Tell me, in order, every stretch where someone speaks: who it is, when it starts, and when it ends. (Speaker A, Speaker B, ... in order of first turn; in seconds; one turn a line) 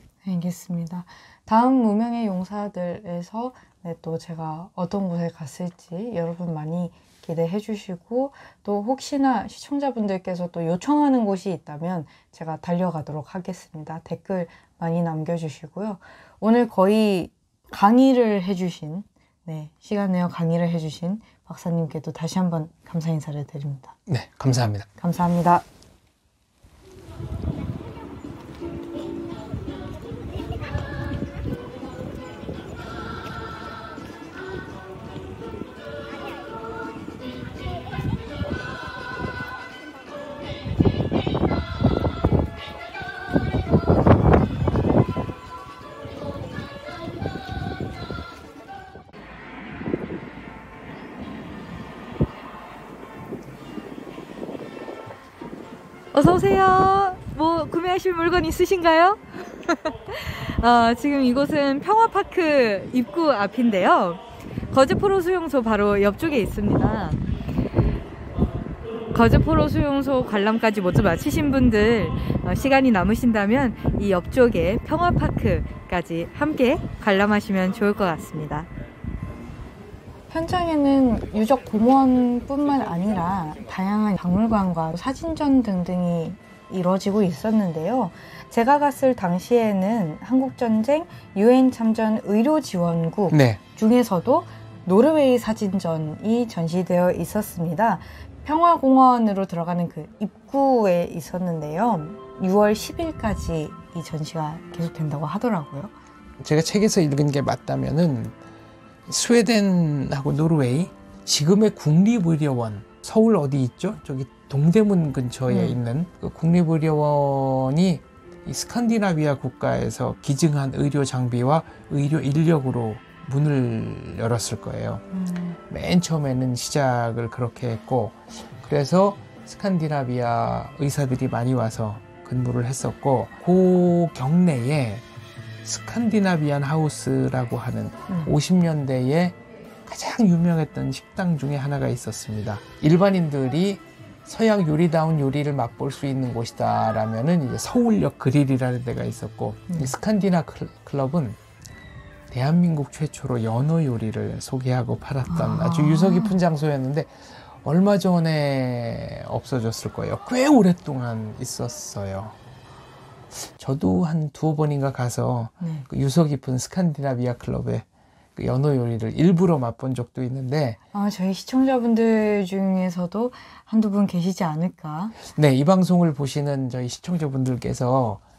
Speaker A: 0.2-23.9
Speaker B: 24.1-24.9
Speaker A: 25.0-25.7
Speaker C: 56.1-67.2
Speaker C: 69.1-78.7
Speaker A: 80.3-105.9
Speaker B: 93.3-93.6
Speaker B: 106.4-108.3
Speaker B: 109.1-125.0
Speaker A: 115.5-115.8
Speaker A: 125.1-125.6
Speaker B: 125.7-135.0
Speaker B: 135.6-151.4
Speaker B: 152.3-162.4
Speaker A: 155.3-156.4
Speaker B: 163.4-167.8
Speaker A: 165.6-165.9
Speaker B: 168.4-170.8
Speaker A: 170.9-175.2
Speaker B: 175.2-178.2